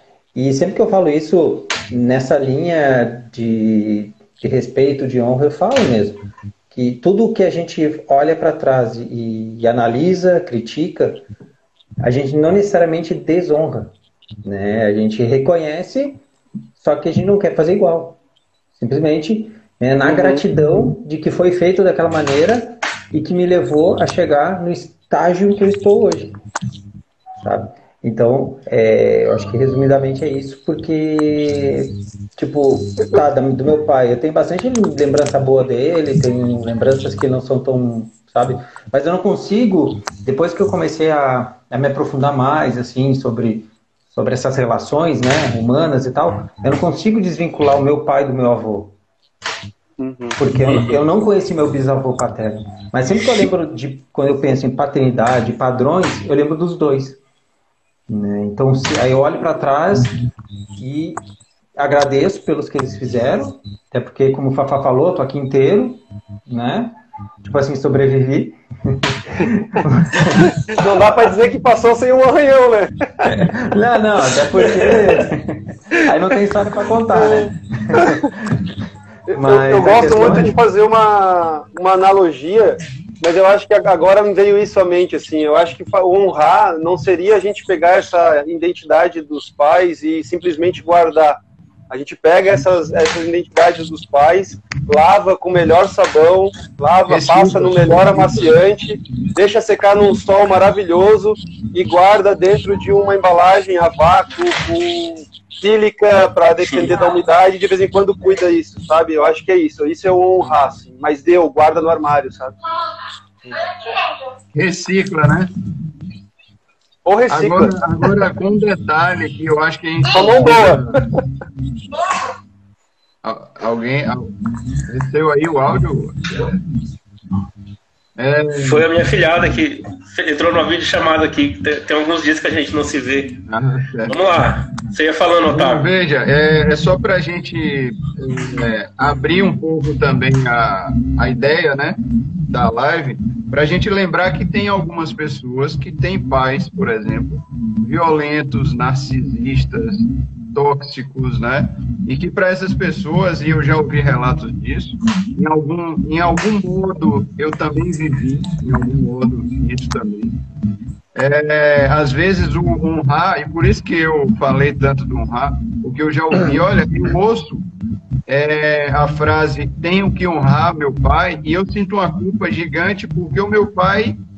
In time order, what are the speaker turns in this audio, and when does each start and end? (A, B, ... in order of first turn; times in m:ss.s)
0:00.4-0:11.2 A
0:12.0-0:13.9 A
0:14.4-0:16.2 A
0:16.8-0:18.2 A
0:18.8-0:26.4 A
0:20.0-0:20.4 B
0:27.4-0:48.9 A
0:50.0-0:50.4 B
0:50.4-0:57.2 A
0:50.6-0:51.0 C
0:58.1-1:00.2 A
1:00.8-1:01.2 A
1:01.8-1:10.5 A
1:10.7-1:13.3 B
1:13.2-1:18.6 A
1:14.6-1:15.0 B
1:17.1-1:18.2 B
1:19.3-1:20.6 A
1:19.3-1:52.6 B
1:37.1-1:38.6 D
1:54.5-1:55.5 D
1:57.1-1:58.3 B
1:57.3-2:01.0 D
2:00.1-2:01.0 B
2:03.2-2:04.3 D
2:04.8-2:06.6 D
2:08.2-2:08.9 D
2:08.6-2:13.4 C
2:13.5-2:14.2 D
2:14.1-2:15.9 C
2:15.5-2:40.4 D
2:41.2-2:47.7 D
2:48.3-2:54.2 D